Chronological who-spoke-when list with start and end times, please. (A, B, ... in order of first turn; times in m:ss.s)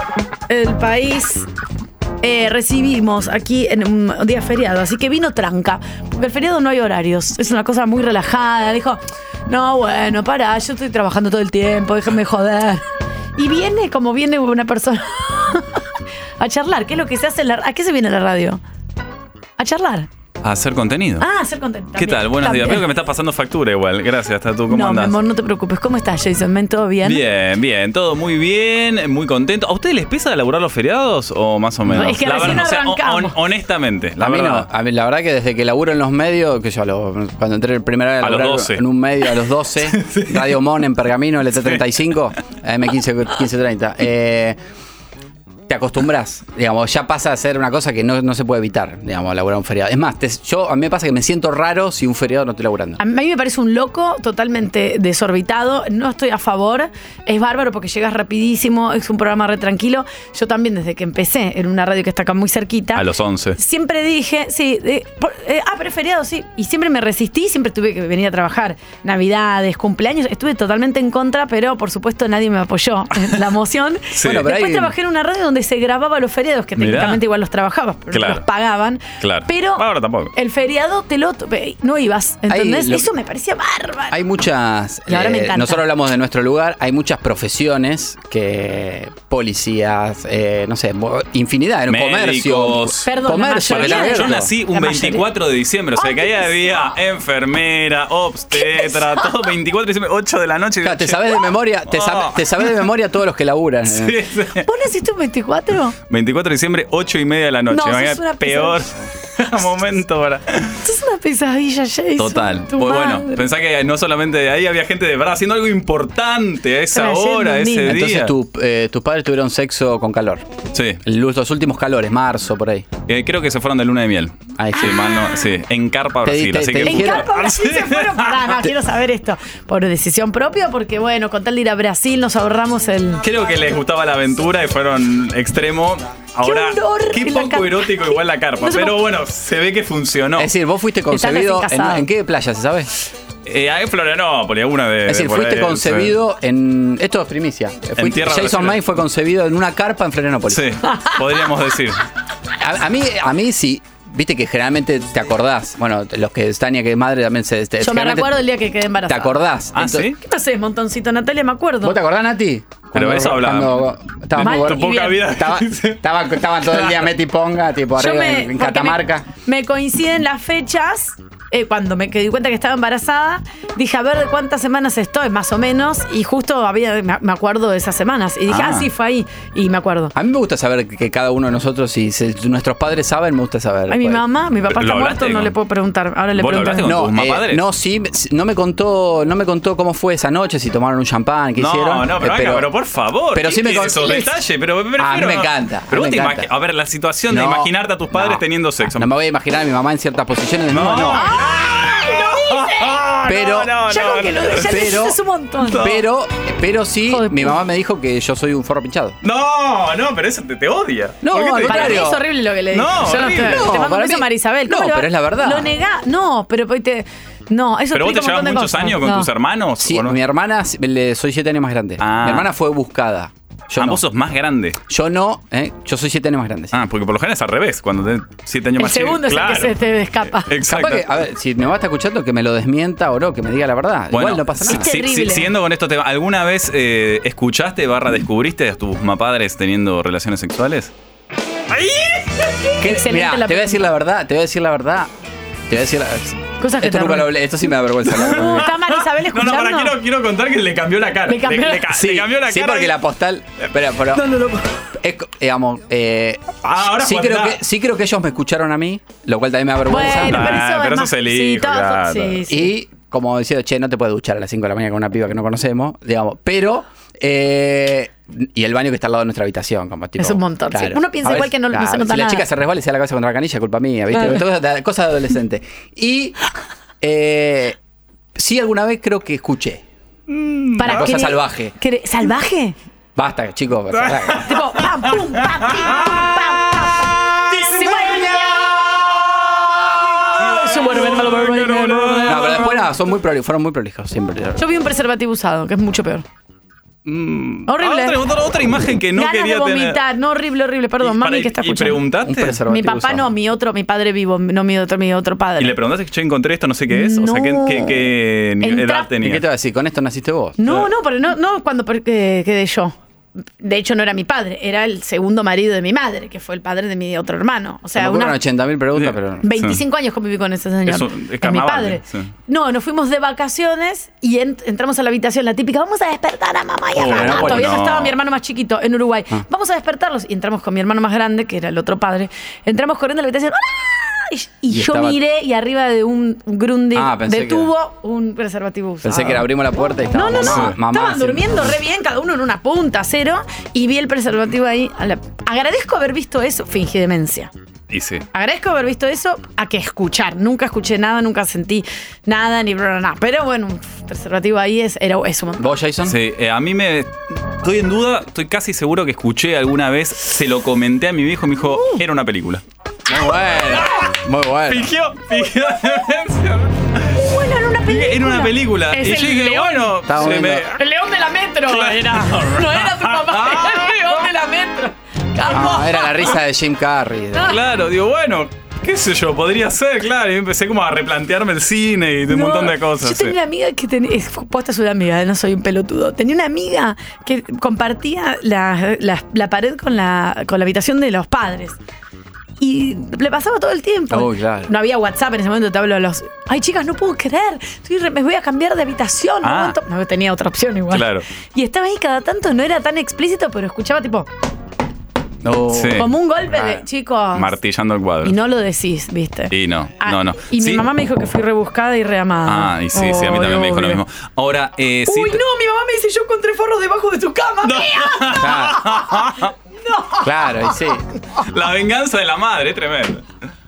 0:00.5-0:01.5 A
0:02.2-0:12.8 A
0:13.4-0:18.6 A
0:19.6-0:20.1 A
0:20.4-0:21.3 B
0:21.2-0:22.8 A
0:21.9-0:25.2 B
0:24.7-0:27.2 A
0:27.0-0:34.7 B
0:31.9-0:33.4 A
0:34.2-0:44.6 C
0:38.2-0:40.6 B
0:45.7-0:53.0 C
0:53.0-1:03.0 A
1:02.9-1:03.6 B
1:03.6-1:24.2 A
1:14.1-1:14.5 B
1:14.2-1:14.9 C
1:16.8-1:17.2 B
1:18.1-1:18.4 B
1:19.2-1:20.3 B
1:22.5-1:23.1 C
1:24.1-1:34.5 C
1:25.1-1:25.8 A
1:31.9-1:33.1 B
1:33.0-1:35.2 A
1:33.6-1:42.7 B
1:35.9-1:36.9 A
1:38.5-1:39.5 A
1:40.8-1:44.2 C
1:43.8-1:44.6 B
1:44.5-1:46.0 A
1:46.1-1:50.8 B
1:47.7-1:48.9 A
1:50.8-1:53.5 A
1:52.2-1:58.3 B
1:56.9-1:58.0 A
1:57.8-2:00.4 C
2:00.7-2:01.0 B
2:01.0-2:02.8 C
2:03.1-2:08.6 B
2:04.6-2:05.0 C
2:04.7-2:05.4 A
2:06.2-2:07.3 C
2:06.8-2:13.2 A
2:13.2-2:20.5 B
2:16.4-2:19.0 A
2:20.4-2:22.9 C
2:21.1-2:22.1 A
2:23.4-2:26.2 B
2:25.1-2:30.7 C
2:28.0-2:28.8 B
2:30.5-2:32.0 B
2:30.8-2:31.4 A
2:32.6-2:38.4 C
2:37.8-2:39.3 A
2:39.1-2:40.1 C
2:39.7-2:40.2 B
2:40.2-2:42.0 A
2:41.8-2:49.3 C
2:42.9-2:46.0 B
2:44.4-2:45.3 A
2:46.7-2:46.9 B
2:48.0-3:00.1 A
2:58.5-2:58.9 B
3:00.1-3:04.2 C
3:03.9-3:06.9 A
3:04.7-3:05.5 B
3:06.4-3:07.6 B
3:06.8-3:12.7 C
3:11.6-3:19.1 B
3:13.3-3:14.1 C
3:13.8-3:14.3 A
3:15.0-3:16.5 C
3:17.3-3:21.4 C
3:20.7-3:24.8 B
3:21.1-3:22.9 A
3:23.2-3:23.8 C
3:23.8-3:26.0 A
3:24.6-3:25.2 C
3:25.6-3:26.0 B
3:25.8-3:29.2 C
3:27.1-3:27.6 A
3:29.2-3:32.1 B
3:31.2-3:32.2 C
3:31.6-3:39.3 A
3:32.7-3:33.8 B
3:33.2-3:35.7 C
3:37.9-3:40.2 B
3:39.8-3:44.0 C
3:42.0-3:42.5 B
3:43.8-3:44.8 B
3:44.9-3:46.7 C
3:46.7-3:49.8 B
3:48.8-3:51.0 A
3:50.3-3:51.0 B
3:50.6-3:54.9 C
3:54.1-4:00.9 B
3:54.6-3:55.5 A
4:01.7-4:02.8 B
4:02.8-4:03.9 A
4:02.8-4:05.1 C
4:05.7-4:08.8 C
4:06.6-4:07.3 A
4:08.1-4:12.9 B
4:08.2-4:10.0 A
4:11.3-4:11.9 A
4:11.9-4:14.4 C
4:14.1-4:14.7 A
4:15.0-4:20.6 C
4:16.6-4:17.6 B
4:19.9-4:22.7 A
4:20.1-4:22.5 B
4:22.5-4:36.4 C
4:30.2-4:32.5 A
4:34.1-4:34.4 A
4:37.0-4:37.8 C
4:38.3-4:39.8 C
4:40.3-4:41.1 B
4:40.8-4:42.7 A
4:40.8-4:41.7 C
4:43.2-4:44.6 C
4:43.9-4:44.4 B
4:44.4-4:48.7 A
4:45.1-4:46.3 B
4:47.5-4:52.9 B
4:50.2-4:52.7 A
4:52.2-4:54.6 C
4:54.6-4:56.2 A
4:57.0-5:00.0 B
4:57.6-4:58.2 A
4:59.1-5:02.0 A
5:01.0-5:02.6 B
5:02.2-5:03.3 C
5:02.6-5:05.8 A
5:05.6-5:09.4 B
5:06.9-5:09.1 A
5:09.2-5:10.6 C
5:10.6-5:13.0 A
5:13.6-5:18.4 A
5:18.0-5:19.4 C
5:18.9-5:19.8 B
5:19.4-5:39.5 A
5:20.8-5:22.3 B
5:26.9-5:28.1 B
5:27.0-5:27.7 C
5:34.7-5:35.2 C
5:36.9-5:37.7 C
5:39.0-5:41.6 C
5:40.1-5:47.5 A
5:40.4-5:40.7 B
5:47.9-5:48.2 B
5:48.3-5:55.7 A
5:55.6-5:56.2 C
5:56.0-6:02.6 B
6:01.7-6:02.0 A
6:03.0-6:04.9 C
6:03.7-6:04.0 B
6:04.7-6:07.2 B
6:07.1-6:16.4 A
6:07.8-6:10.8 B
6:10.1-6:10.7 C
6:11.6-6:14.3 B
6:15.4-6:17.6 C
6:17.3-6:17.6 A
6:17.4-6:23.4 B
6:22.3-6:31.8 A
6:32.6-6:44.3 A
6:34.1-6:34.7 C
6:39.4-6:39.8 B
6:40.9-6:41.2 B
6:45.4-6:46.7 C
6:45.7-6:46.1 B
6:45.8-6:47.5 A
6:47.3-6:48.3 B
6:48.2-6:54.0 A
6:49.5-6:50.8 B
6:52.4-6:55.4 B
6:55.0-7:00.7 A
6:57.6-6:59.5 B
6:58.3-6:58.8 C
7:00.2-7:01.0 C
7:01.4-7:03.2 B